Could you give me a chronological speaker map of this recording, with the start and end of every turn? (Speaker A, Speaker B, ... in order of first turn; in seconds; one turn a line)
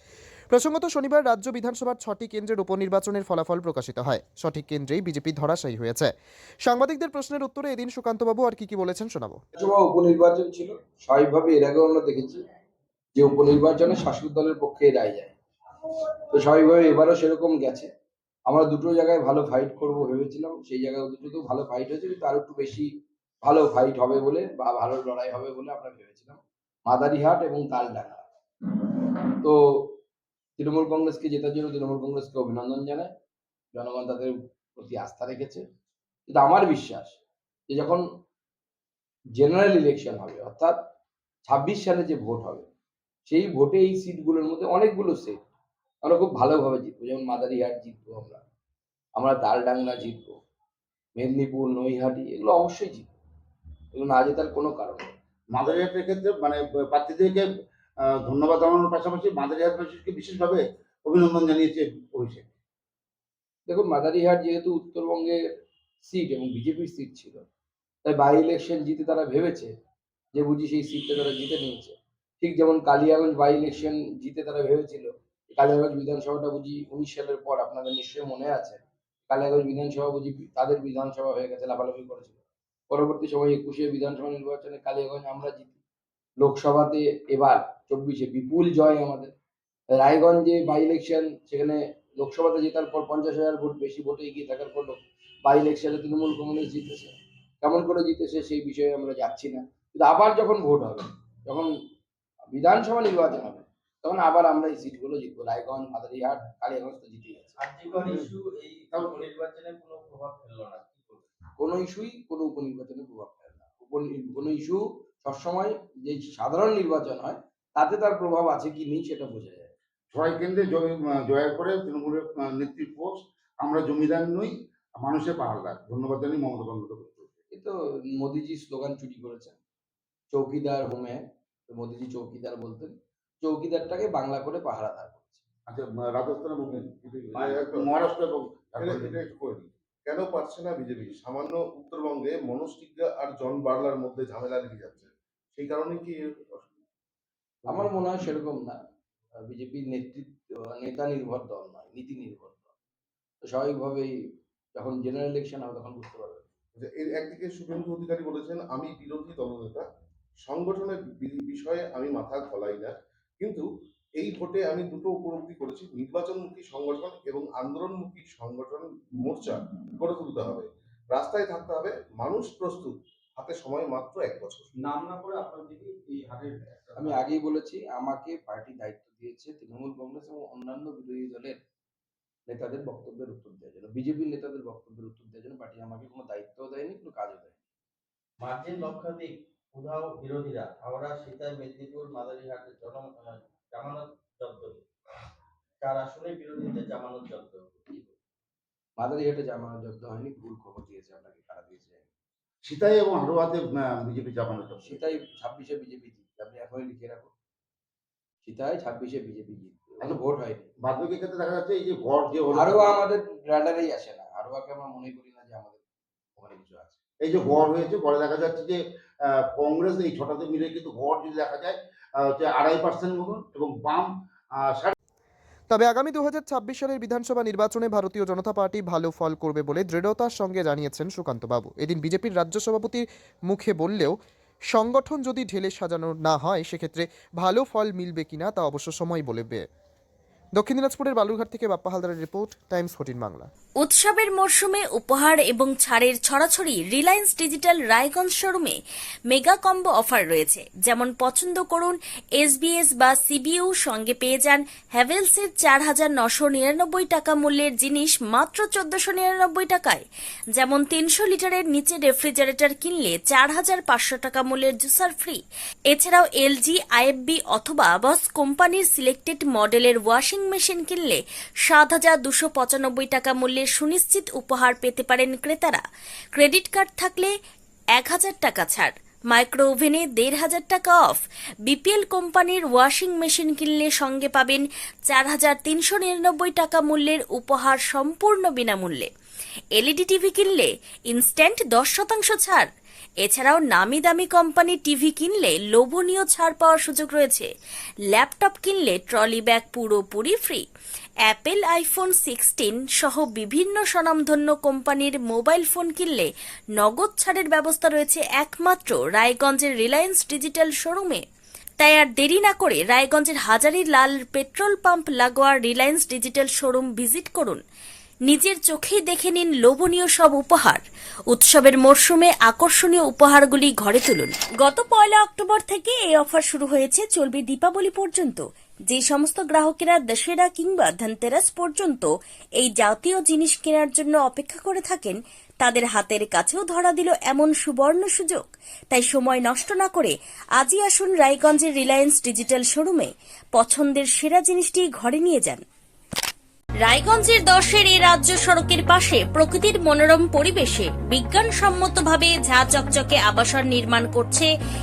Speaker A: 0.5-6.1
Speaker A: 6.7-9.4
Speaker B: 9.5-12.4
Speaker B: 13.2-15.3
Speaker B: 16.3-17.9
Speaker B: 18.5-22.9
Speaker B: 23.4-28.2
Speaker B: 29.4-29.9
Speaker B: 30.6-33.1
Speaker B: 33.7-35.6
Speaker B: 36.3-37.2
Speaker B: 37.7-38.0
Speaker B: 39.4-40.8
Speaker B: 41.5-42.7
Speaker B: 43.3-45.4
Speaker B: 46.0-48.4
Speaker B: 49.2-50.3
Speaker B: 51.2-53.1
Speaker B: 53.9-55.1
Speaker C: 55.5-57.4
Speaker C: 58.2-62.5
Speaker B: 63.7-65.4
Speaker B: 66.0-67.4
Speaker B: 68.0-69.7
Speaker B: 70.3-82.4
Speaker B: 82.9-85.8
Speaker B: 86.4-89.3
Speaker B: 90.0-101.7
Speaker B: 102.5-107.5
Speaker D: 107.6-111.3
Speaker B: 111.6-119.7
Speaker C: 120.1-127.3
Speaker B: 127.5-129.6
Speaker B: 130.3-135.4
Speaker C: 135.7-139.6
Speaker D: 137.3-137.6
Speaker E: 137.6-137.9
Speaker E: 138.8-139.4
Speaker E: 140.1-146.7
Speaker E: 147.6-148.0
Speaker B: 147.7-148.8
Speaker B: 149.5-152.7
Speaker B: 153.5-154.1
Speaker B: 154.8-156.5
Speaker E: 156.8-159.8
Speaker E: 160.4-163.7
Speaker E: 164.2-174.8
Speaker D: 174.8-177.3
Speaker B: 177.0-181.6
Speaker B: 182.5-187.6
Speaker D: 188.4-193.1
Speaker D: 193.7-194.8
Speaker D: 195.8-197.9
Speaker B: 199.0-202.1
Speaker C: 202.7-205.0
Speaker B: 204.8-207.3
Speaker B: 208.4-210.7
Speaker C: 210.8-213.0
Speaker B: 212.5-215.8
Speaker B: 216.4-217.0
Speaker C: 217.2-218.8
Speaker C: 219.6-221.8
Speaker C: 222.3-224.1
Speaker A: 225.7-234.1
Speaker A: 234.7-239.6
Speaker A: 240.6-243.5
Speaker F: 243.8-248.8
Speaker F: 249.3-260.0
Speaker F: 260.6-275.8
Speaker F: 276.3-277.3
Speaker F: 277.9-289.1
Speaker F: 289.8-292.7
Speaker F: 293.2-297.5
Speaker F: 298.1-300.6
Speaker F: 301.2-311.2
Speaker F: 311.8-317.6
Speaker F: 318.3-332.1
Speaker F: 332.6-345.6
Speaker F: 346.8-354.5